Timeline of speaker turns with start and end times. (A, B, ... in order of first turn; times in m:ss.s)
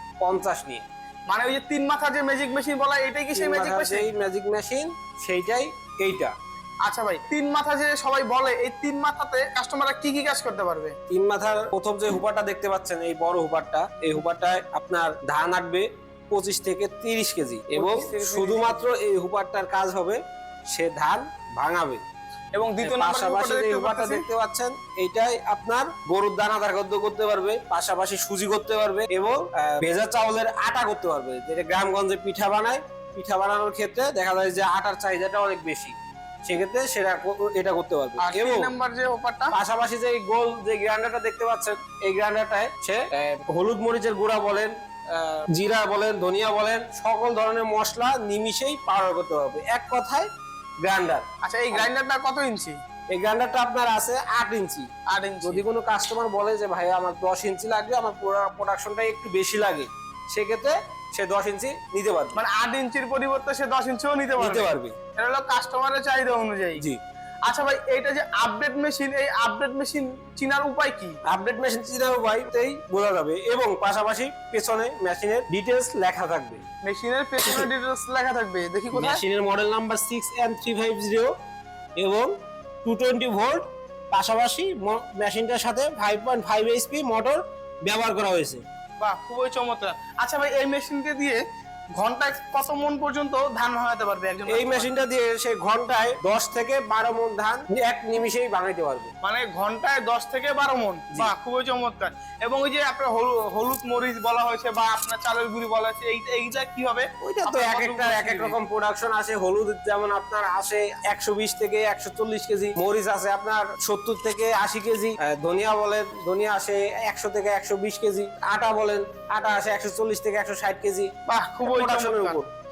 0:00.2-0:00.9 A
0:01.3-0:04.1 B
0:03.3-0:06.3 A
0:06.8-0:11.0 B
0:11.1-0:22.0 A
0:17.7-0:18.9 B
0:22.5-0:24.2 B
0:22.8-0:38.7 A
0:38.2-0:39.6 B
0:39.5-0:50.3 A
0:50.8-0:51.9 A
0:51.4-0:52.8 B
0:53.1-0:54.9 A
0:55.1-0:55.6 B
0:55.4-1:02.4 A
1:02.3-1:06.8 B
1:04.4-1:05.0 A
1:07.4-1:11.2 B
1:11.2-1:16.6 A
1:16.8-1:19.2 B
1:18.9-1:21.3 A
1:22.0-1:22.3 A
1:22.8-1:28.6 A
1:29.0-1:31.4 B
1:32.0-1:34.9 B
1:34.5-1:39.1 A
1:39.2-1:48.6 B
1:47.2-2:01.1 A
2:01.2-2:02.4 B
2:01.6-2:02.5 A